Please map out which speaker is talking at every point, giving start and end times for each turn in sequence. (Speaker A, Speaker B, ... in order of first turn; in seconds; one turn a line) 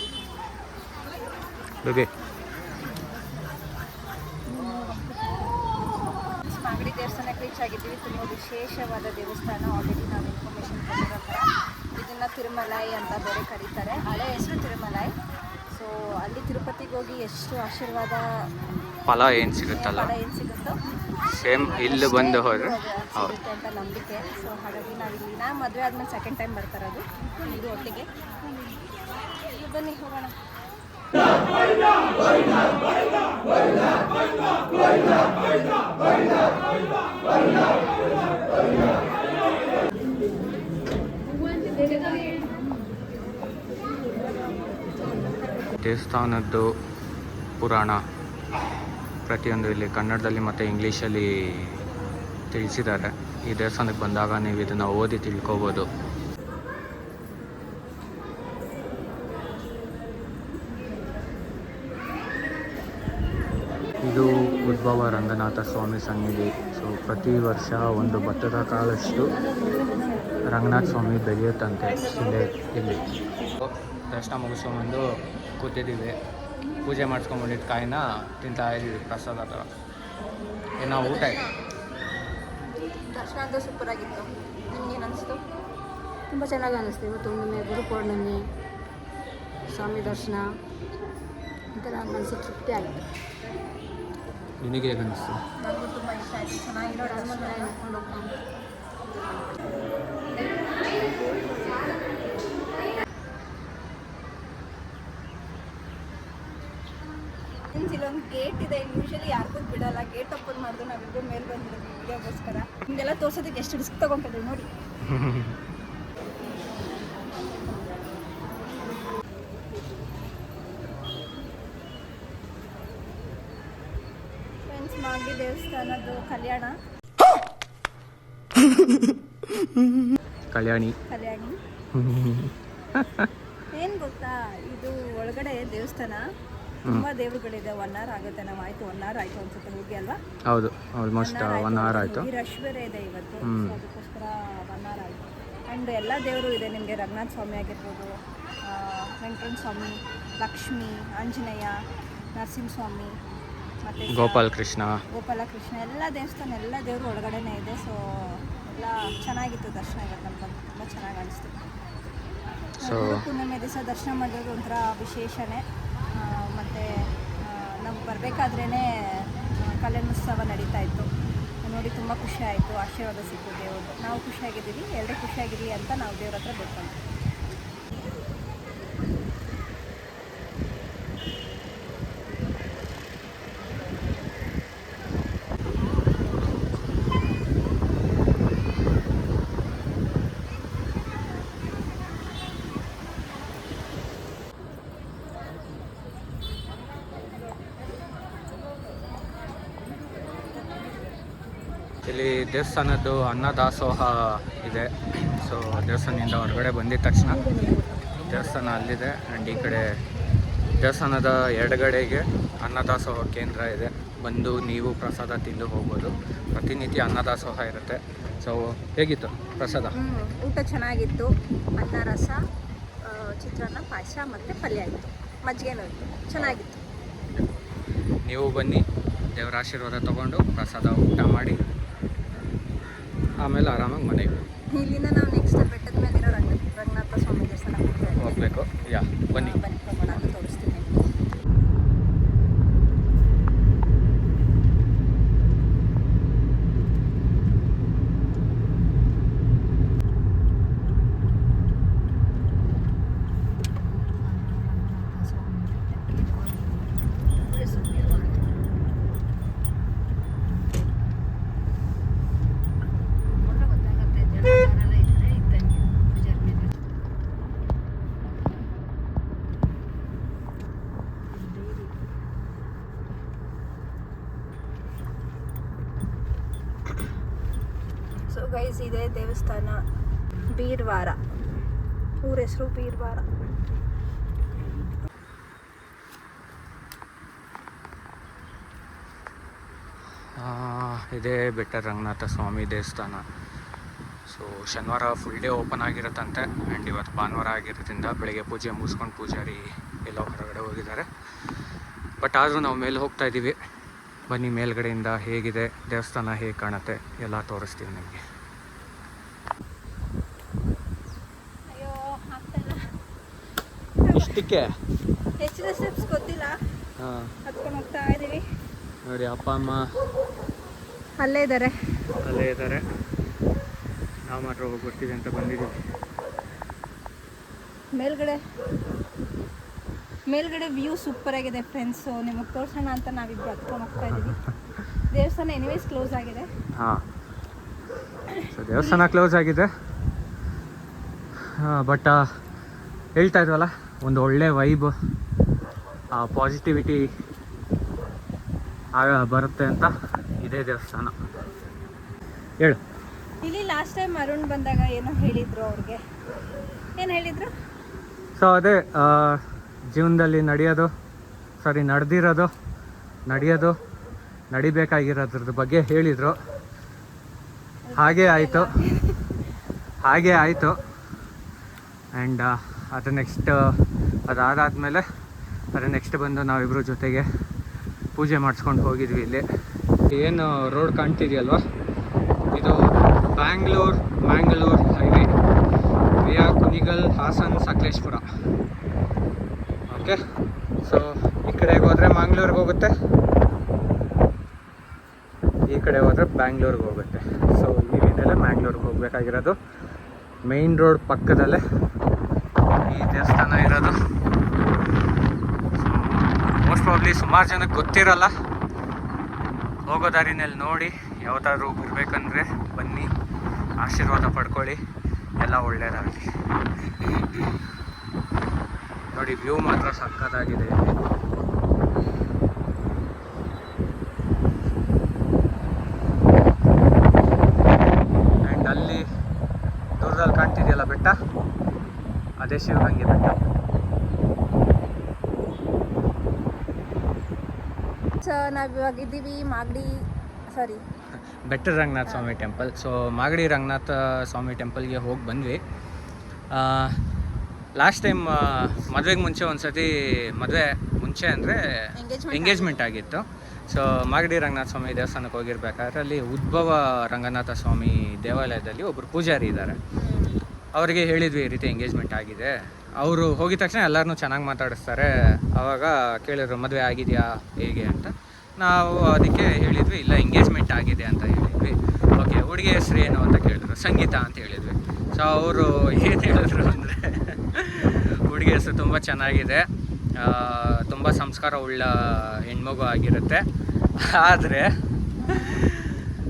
Speaker A: 1.8-2.1
Speaker B: 4.5-5.5
Speaker C: 6.4-15.1
Speaker C: 15.7-18.5
Speaker A: 19.1-20.1
Speaker C: 19.7-20.8
Speaker A: 21.3-23.4
Speaker C: 21.6-28.1
Speaker C: 29.4-30.3
Speaker B: 42.0-42.4
Speaker A: 45.8-46.7
Speaker A: 47.6-48.0
Speaker A: 49.3-51.8
Speaker A: 52.5-55.9
Speaker A: 64.0-69.3
Speaker A: 70.5-73.0
Speaker A: 73.6-75.0
Speaker A: 75.6-76.2
Speaker A: 76.8-79.7
Speaker A: 80.8-81.4
Speaker C: 80.8-81.5
Speaker C: 83.1-85.5
Speaker B: 86.3-88.5
Speaker B: 89.7-90.5
Speaker A: 89.8-90.3
Speaker B: 91.7-93.0
Speaker A: 94.6-95.4
Speaker C: 95.6-97.8
Speaker B: 96.9-98.4
Speaker C: 107.7-114.7
Speaker A: 115.0-115.6
Speaker C: 124.7-126.8
Speaker A: 130.5-130.9
Speaker C: 131.1-131.6
Speaker A: 131.9-133.3
Speaker C: 133.7-136.2
Speaker C: 136.9-140.2
Speaker A: 140.5-142.3
Speaker C: 141.2-151.8
Speaker A: 143.4-143.8
Speaker C: 152.3-153.2
Speaker C: 153.8-154.4
Speaker A: 154.1-155.0
Speaker C: 155.1-161.6
Speaker C: 162.8-166.9
Speaker A: 162.8-163.2
Speaker C: 167.4-171.1
Speaker C: 171.6-176.9
Speaker A: 202.0-207.6
Speaker B: 207.3-208.1
Speaker A: 208.2-209.9
Speaker A: 210.8-219.9
Speaker C: 219.9-222.4
Speaker C: 223.0-226.8
Speaker A: 228.2-231.6
Speaker A: 233.4-234.3
Speaker C: 234.7-238.5
Speaker A: 238.1-239.6
Speaker C: 239.3-241.1
Speaker B: 254.2-258.6
Speaker B: 263.3-266.7
Speaker B: 271.3-272.0
Speaker C: 278.3-279.8
Speaker C: 280.5-281.2
Speaker C: 282.2-283.2
Speaker A: 290.4-293.2
Speaker A: 294.3-301.1
Speaker A: 302.2-303.6
Speaker A: 304.3-308.2
Speaker C: 311.7-312.9
Speaker C: 314.0-314.4
Speaker A: 314.1-314.7
Speaker C: 315.4-316.6
Speaker A: 317.0-317.3
Speaker C: 317.4-318.4
Speaker A: 319.0-319.9
Speaker C: 321.2-321.7
Speaker A: 322.2-322.8
Speaker A: 324.3-325.8
Speaker C: 327.9-328.4
Speaker C: 330.3-334.4
Speaker C: 335.1-336.5
Speaker A: 336.7-337.0
Speaker C: 338.3-339.0
Speaker A: 338.5-339.7
Speaker A: 341.4-342.2
Speaker A: 343.1-344.9
Speaker A: 346.1-347.1
Speaker A: 348.9-351.1
Speaker C: 353.4-356.0
Speaker C: 357.0-357.5
Speaker A: 358.4-360.9
Speaker A: 361.6-362.5
Speaker A: 363.3-363.8
Speaker A: 364.5-366.4
Speaker C: 367.9-369.3
Speaker A: 367.9-368.7
Speaker A: 370.0-370.8
Speaker A: 372.1-373.7
Speaker A: 374.3-375.0
Speaker A: 375.7-377.2
Speaker A: 378.1-379.4
Speaker A: 380.1-381.6
Speaker A: 382.5-385.3
Speaker A: 386.2-388.2
Speaker A: 389.9-390.2
Speaker A: 390.8-392.9
Speaker A: 395.7-399.6
Speaker A: 400.5-401.6
Speaker A: 402.9-403.9
Speaker A: 405.8-408.3
Speaker A: 409.9-413.1
Speaker A: 413.8-414.8
Speaker A: 415.4-416.3
Speaker A: 417.0-417.6
Speaker A: 419.1-421.0
Speaker A: 428.4-429.0
Speaker A: 430.0-431.2
Speaker A: 432.4-433.4
Speaker C: 438.2-440.8
Speaker A: 441.4-445.6
Speaker A: 446.5-447.0
Speaker A: 447.8-459.8
Speaker C: 451.9-452.8
Speaker C: 459.9-460.4
Speaker A: 460.7-483.4
Speaker A: 484.0-486.1
Speaker C: 485.2-485.5